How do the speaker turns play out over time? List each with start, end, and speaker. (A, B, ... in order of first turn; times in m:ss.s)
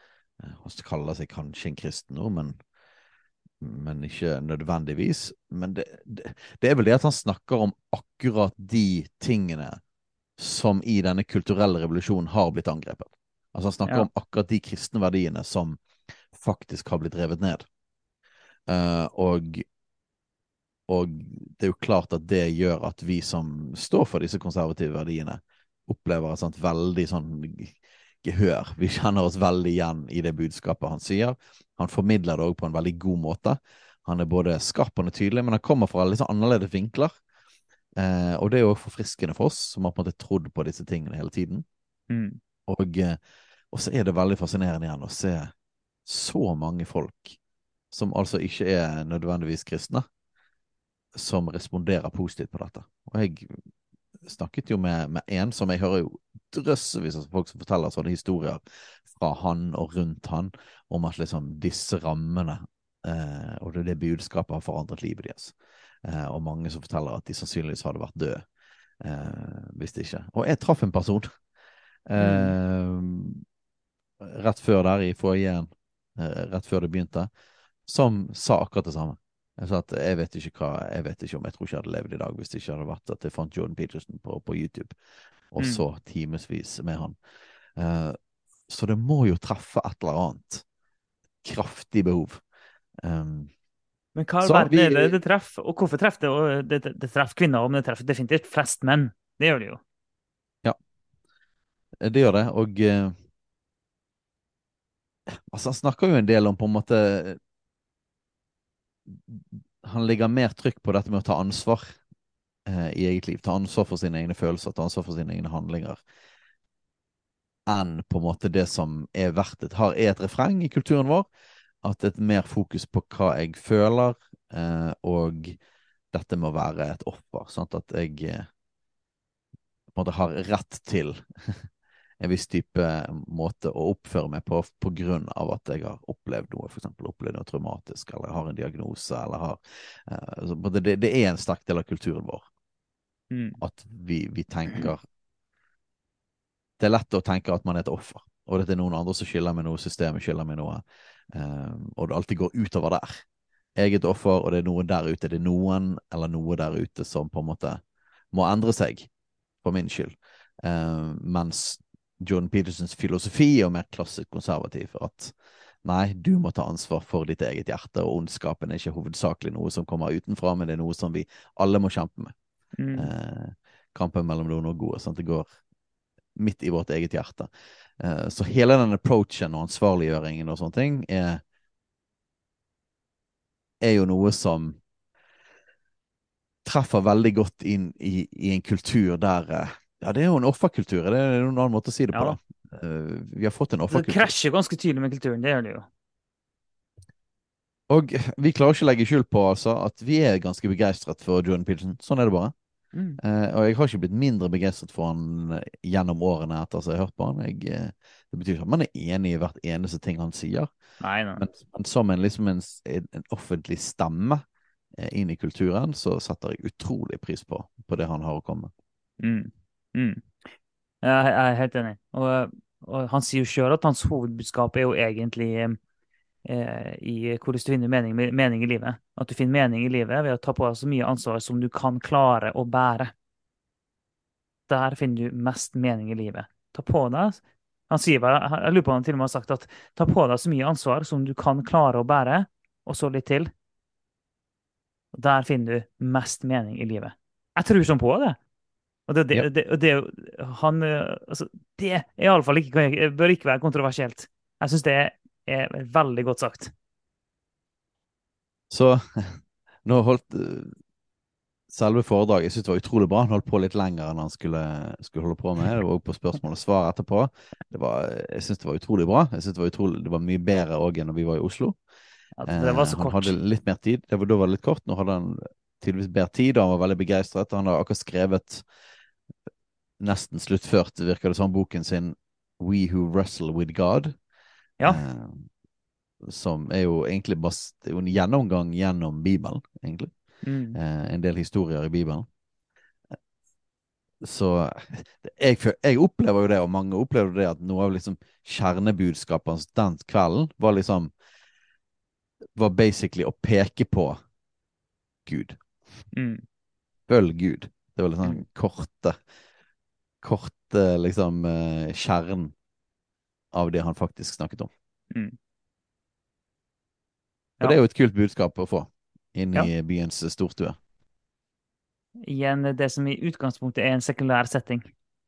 0:00.4-0:02.6 A
0:03.6-0:09.8 A
0:10.4-0:15.8 A
0:16.3-0:17.7 A
0:18.7-0:19.6 A
0:20.9-0:37.1 A
0:38.0-0:41.6 A
0:42.1-0:42.4 B
0:42.7-0:43.2 A
0:43.7-0:45.5 A
0:46.1-0:47.4 A
0:47.9-0:50.1 A
0:51.2-0:53.6 A
0:54.2-1:08.4 A
1:09.0-1:11.3 A
1:12.1-1:13.4 A
1:12.2-1:12.6 B
1:14.2-1:17.3 A
1:17.9-1:25.0 A
1:25.5-1:27.2 A
1:25.6-1:25.8 B
1:27.8-1:28.2 A
1:28.7-1:30.6 A
1:31.4-1:32.4 A
1:33.0-1:33.5 A
1:34.2-1:39.8 B
1:34.4-1:35.2 A
1:42.0-1:43.1 A
1:45.5-1:47.4 A
1:49.1-1:52.0 A
1:52.7-1:56.0 A
1:57.7-2:01.3 A
2:01.8-2:05.6 A
2:06.1-2:08.5 A
2:09.9-2:11.7 A
2:12.2-2:22.5 A
2:23.3-2:23.6 B
2:23.6-2:25.0 A
2:26.8-2:30.8 A
2:31.3-2:33.2 A
2:33.8-2:37.8 A
2:38.3-2:39.1 A
2:39.6-2:52.3 A
2:52.8-2:53.1 B
2:53.0-2:55.5 A
2:56.4-3:01.4 A
3:03.8-3:04.8 A
3:06.6-3:14.3 A
3:12.1-3:12.4 B
3:13.9-3:15.9 B
3:17.9-3:22.5 A
3:22.9-3:23.2 B
3:23.2-3:30.7 A
3:31.0-3:31.4 B
3:31.4-3:34.4 A
3:35.0-3:38.7 A
3:39.2-3:40.3 B
3:41.0-3:45.8 B
3:46.5-3:53.1 B
3:54.7-4:03.5 B
4:05.1-4:08.4 B
4:09.1-4:16.7 B
4:18.7-4:20.8 A
4:21.7-4:31.8 A
4:32.4-4:33.3 B
4:32.5-4:38.7 A
4:40.0-4:44.1 A
4:44.8-4:45.5 A
4:46.3-4:50.1 A
4:50.4-4:50.8 B
4:50.8-4:52.3 A
4:54.2-5:01.1 A
5:02.6-5:04.2 A
5:05.3-5:05.6 A
5:06.1-5:06.4 B
5:07.1-5:09.2 A
5:10.2-5:12.5 A
5:13.5-5:14.7 A
5:17.6-5:20.8 A
5:22.2-5:24.9 B